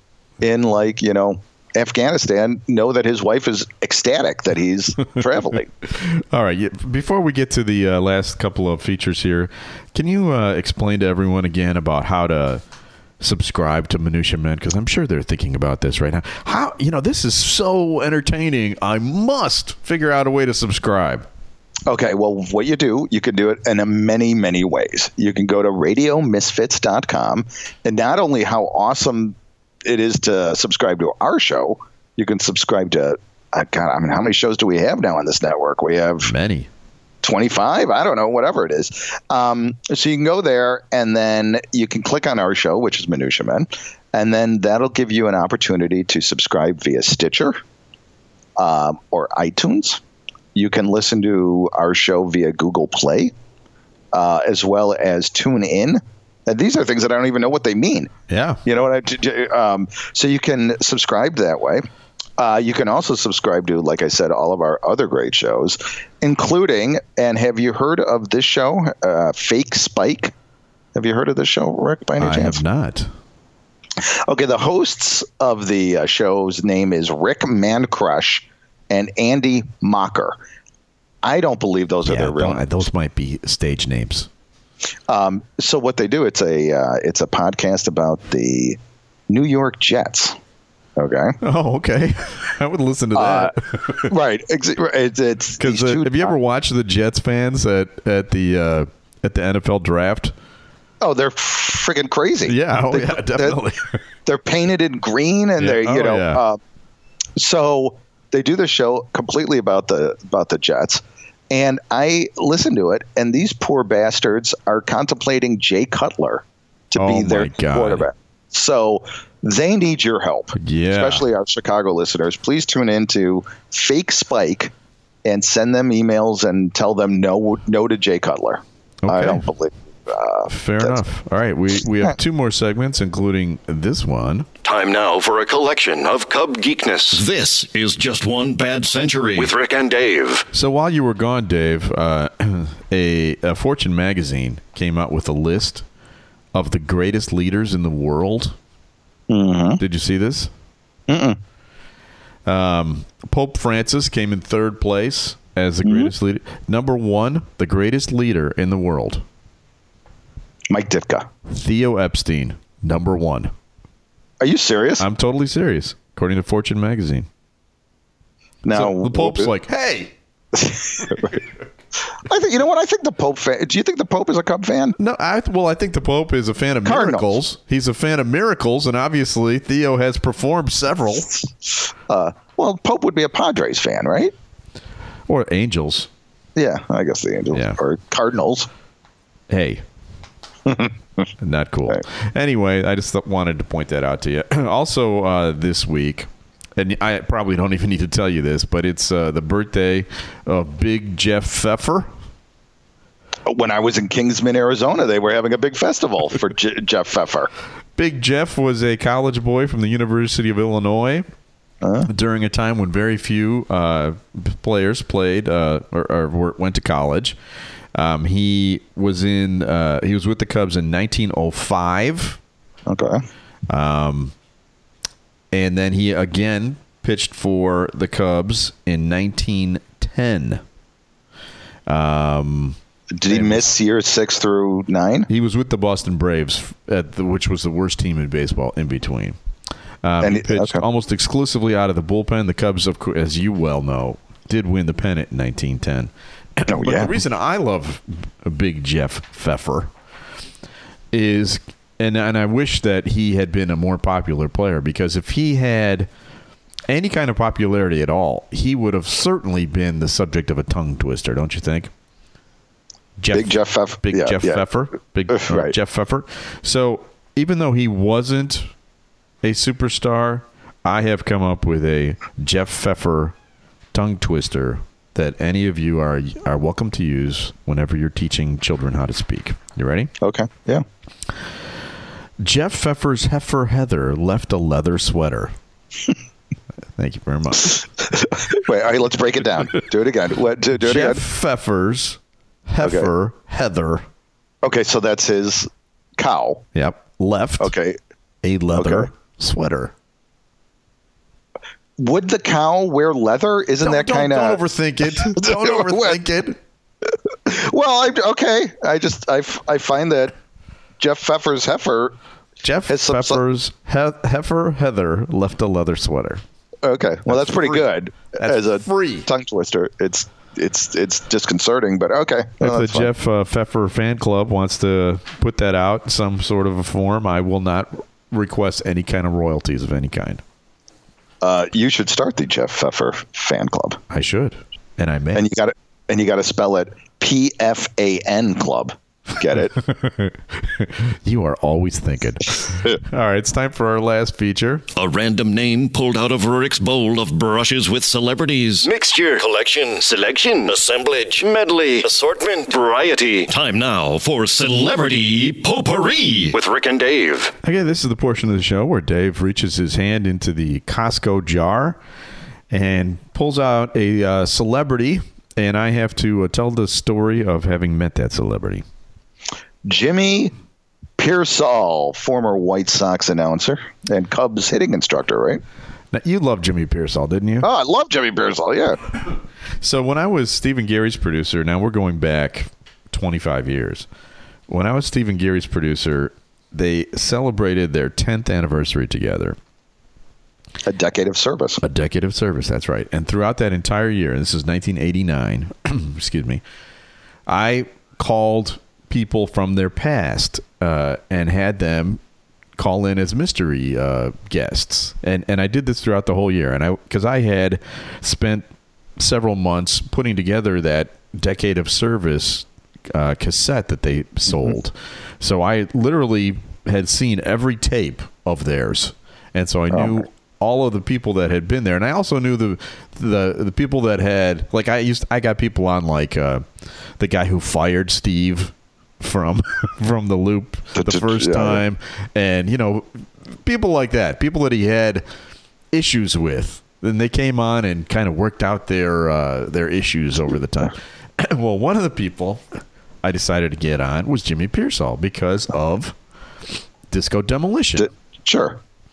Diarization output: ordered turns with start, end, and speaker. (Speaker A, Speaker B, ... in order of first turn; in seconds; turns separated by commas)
Speaker A: 0.4-5.7, Speaker B: 5.8-12.6, Speaker B: 13.2-21.3, Speaker A: 21.9-36.3, Speaker B: 36.2-36.7, Speaker A: 37.2-47.6, Speaker A: 48.6-50.0, Speaker A: 50.5-53.3, Speaker A: 54.1-58.1, Speaker B: 58.3-58.6, Speaker A: 58.6-61.9, Speaker A: 62.4-70.3, Speaker A: 71.0-72.6, Speaker B: 72.2-73.1, Speaker A: 74.0-80.4, Speaker A: 81.2-82.6, Speaker B: 82.0-84.3, Speaker A: 85.1-88.8, Speaker A: 89.3-90.4, Speaker A: 91.0-91.4, Speaker B: 91.4-94.1, Speaker A: 93.2-93.5, Speaker A: 94.0-96.3, Speaker B: 95.6-100.3, Speaker A: 101.0-103.6, Speaker B: 102.5-104.0, Speaker A: 104.3-106.6, Speaker B: 105.6-106.4, Speaker A: 107.4-124.7, Speaker B: 117.0-118.1, Speaker B: 120.6-121.2, Speaker A: 125.2-131.0, Speaker B: 129.0-129.5, Speaker B: 130.5-134.5, Speaker C: 134.6-140.5, Speaker B: 140.5-145.8, Speaker B: 146.5-148.6, Speaker A: 149.3-149.8, Speaker B: 149.8-150.5, Speaker A: 151.1-151.4, Speaker B: 152.5-159.2, Speaker A: 155.8-156.1, Speaker A: 160.7-161.3, Speaker B: 161.5-163.5, Speaker A: 164.4-165.1, Speaker B: 165.0-167.3, Speaker A: 168.7-169.5, Speaker B: 168.7-170.1, Speaker A: 170.5-171.4, Speaker A: 172.3-175.0, Speaker B: 175.0-181.3, Speaker A: 176.8-177.3, Speaker A: 182.1-184.3, Speaker B: 185.3-186.1, Speaker A: 186.6-188.7, Speaker B: 187.5-187.8, Speaker B: 189.5-189.8, Speaker A: 190.7-190.9, Speaker B: 191.4-202.1, Speaker A: 203.5-207.5, Speaker B: 208.0-211.3, Speaker A: 211.8-212.1, Speaker B: 212.1-217.4, Speaker B: 217.9-222.4, Speaker A: 222.9-223.2, Speaker B: 223.7-224.3, Speaker B: 225.5-230.6, Speaker B: 231.9-233.7, Speaker A: 233.1-235.3, Speaker B: 235.3-239.4, Speaker B: 240.0-249.9, Speaker A: 240.2-240.8, Speaker A: 246.7-247.1, Speaker B: 251.1-256.1, Speaker B: 256.9-261.9, Speaker B: 263.2-268.7, Speaker A: 263.3-264.6, Speaker A: 265.3-265.7, Speaker B: 269.4-273.4, Speaker B: 273.9-280.1, Speaker A: 280.2-280.8, Speaker B: 282.4-285.6, Speaker B: 287.0-287.8, Speaker A: 287.7-291.2, Speaker B: 290.8-294.1, Speaker A: 292.8-293.1, Speaker A: 294.6-296.6, Speaker B: 296.8-297.7, Speaker A: 297.6-298.0, Speaker B: 298.4-299.9, Speaker A: 298.8-299.1, Speaker A: 302.0-304.6, Speaker B: 303.8-306.6, Speaker A: 305.3-306.2, Speaker A: 307.5-310.4, Speaker A: 311.0-312.1, Speaker B: 312.6-316.4, Speaker A: 312.9-313.4, Speaker A: 316.8-323.1, Speaker B: 317.3-319.3, Speaker B: 322.6-330.4, Speaker A: 331.4-334.0, Speaker B: 334.1-335.5, Speaker A: 335.4-339.8, Speaker B: 339.5-344.9, Speaker C: 345.0-357.5, Speaker B: 357.6-362.0, Speaker B: 362.7-368.9, Speaker A: 369.9-370.5, Speaker A: 371.2-375.6, Speaker B: 376.1-377.7, Speaker A: 377.6-379.0, Speaker B: 379.8-384.1, Speaker B: 384.7-389.6, Speaker A: 390.9-391.8, Speaker B: 391.8-396.6, Speaker B: 397.5-402.2, Speaker B: 402.8-426.6, Speaker A: 419.9-420.3, Speaker B: 427.2-435.2, Speaker A: 430.9-431.8, Speaker B: 435.9-442.7, Speaker B: 443.2-446.2, Speaker B: 447.1-448.1, Speaker A: 448.0-448.8